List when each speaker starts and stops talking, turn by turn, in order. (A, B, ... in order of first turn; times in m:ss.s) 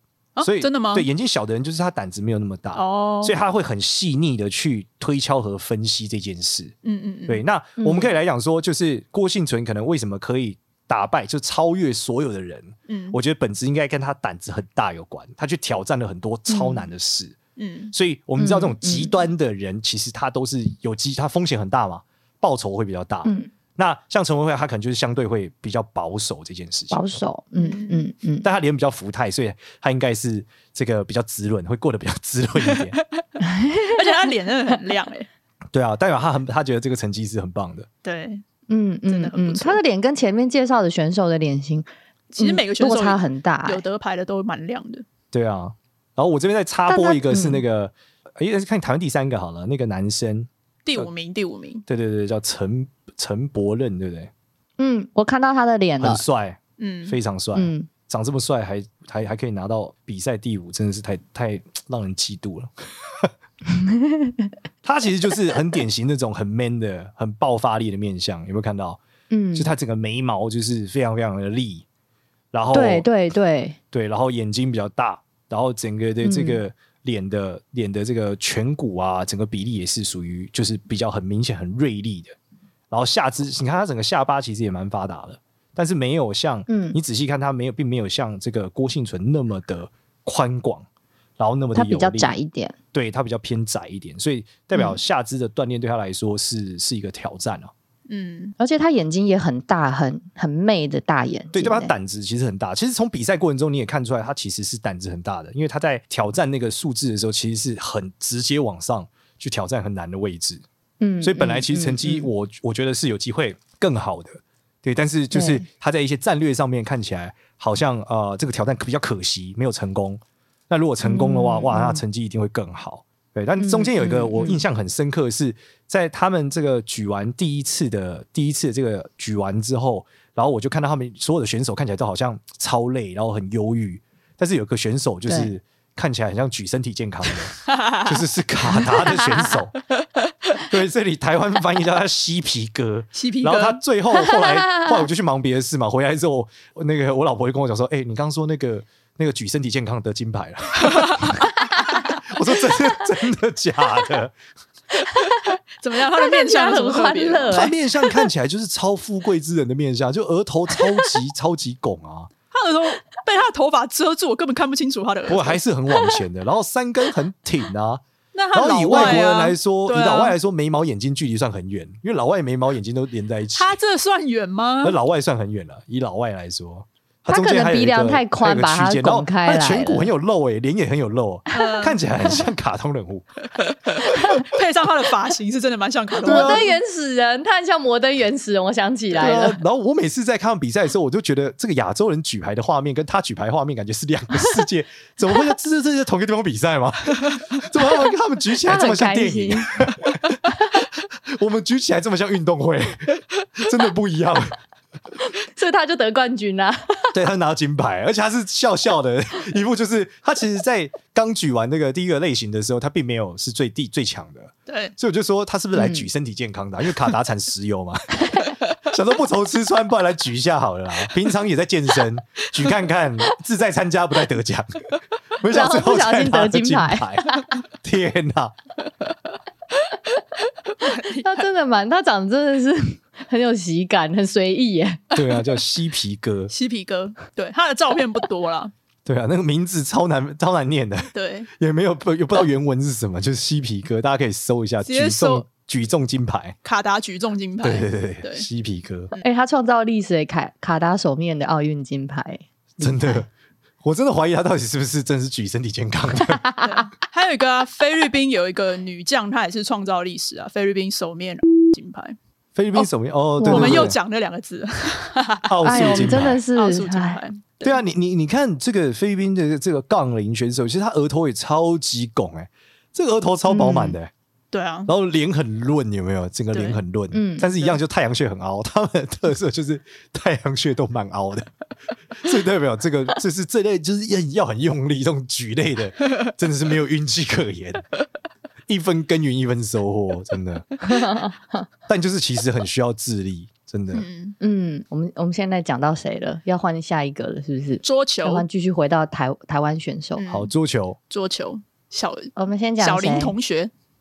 0:00.4-0:01.1 A
0:00.4-0:06.7 B
0:02.7-0:03.4 A
0:06.8-0:07.4 A
0:07.3-0:17.4 B
0:07.8-0:08.1 C
0:12.9-0:13.2 A
0:16.5-0:16.9 C
0:17.6-0:17.9 A
0:17.9-0:27.2 B
0:18.4-0:19.1 C
0:26.9-0:28.5 C
0:27.6-0:28.1 A
0:28.4-0:33.0 B
0:32.7-0:33.0 A
0:33.5-0:34.1 C
0:33.8-0:35.3 A
0:35.7-0:37.9 B
0:38.0-0:38.4 A
0:38.7-0:41.9 C
0:39.1-0:39.8 A
0:42.3-0:45.0 A
0:42.4-0:43.8 C
0:45.3-0:51.1 B
0:46.9-0:47.6 C
0:50.8-0:51.8 A
0:51.9-0:54.3 B
0:54.8-0:56.2 C
0:56.0-1:03.3 B
0:56.8-0:57.2 A
0:57.5-0:57.9 C
1:03.8-1:04.5 C
1:04.8-1:09.0 B
1:09.3-1:09.7 C
1:09.5-1:11.8 B
1:12.5-1:13.1 B
1:12.7-1:13.8 C
1:13.9-1:22.4 B
1:16.2-1:16.6 C
1:22.9-1:30.9 B
1:26.7-1:27.0 C
1:31.4-1:32.4 B
1:31.7-1:32.7 C
1:32.9-1:37.7 B
1:34.7-1:35.0 C
1:38.1-1:38.6 A
1:38.6-1:41.9 C
1:41.5-1:50.6 B
1:51.0-1:52.3 C
1:51.2-2:19.8 B
1:55.3-1:55.6 C
2:01.0-2:02.0 C
2:03.6-2:04.6 C
2:17.6-2:18.1 A
2:20.7-2:34.4 B
2:23.1-2:23.8 A
2:24.3-2:24.9 C
2:30.8-2:31.4 A
2:35.0-2:37.7 A
2:36.2-2:37.7 C
2:37.5-2:42.3 B
2:42.5-2:45.6 A
2:45.3-2:53.8 B
2:48.3-2:50.3 A
2:48.9-2:49.3 C
2:53.6-2:55.0 A
2:54.8-3:03.3 B
2:57.3-3:00.1 C
3:01.5-3:02.0 A
3:03.5-3:06.7 A
3:06.2-3:06.7 B
3:06.2-3:09.6 C
3:09.2-3:20.5 B
3:18.6-3:19.8 C
3:21.3-3:24.6 B
3:25.5-3:27.2 C
3:27.1-3:48.5 B
3:34.7-3:34.9 A
3:35.7-3:36.1 C
3:45.4-3:47.4 C
3:50.7-3:51.5 A
3:51.2-3:55.1 C
3:55.1-3:56.5 B
3:56.5-3:58.7 A
3:59.0-4:06.6 B
4:01.1-4:01.5 A
4:04.8-4:05.4 A
4:06.6-4:08.5 A
4:07.6-4:09.1 B
4:09.2-4:13.2 C
4:12.8-4:13.3 B
4:13.8-4:16.4 B
4:16.6-4:22.2 A
4:22.6-4:24.0 B
4:23.4-4:23.9 C
4:23.4-4:27.8 A
4:25.5-4:26.4 B
4:25.6-4:27.2 C
4:27.6-4:34.1 B
4:33.5-4:34.0 C
4:34.5-4:34.9 A
4:34.9-4:41.5 B
4:36.5-4:36.8 A
4:37.1-4:37.5 C
4:42.2-4:47.8 B
4:48.7-4:50.8 B
4:50.9-4:51.3 C
4:51.9-4:54.0 B
4:53.9-4:54.4 A
4:54.4-5:00.2 C
4:57.8-4:58.4 A
5:00.2-5:00.5 A
5:00.3-5:01.0 B
5:01.1-5:03.7 A
5:02.4-5:03.4 C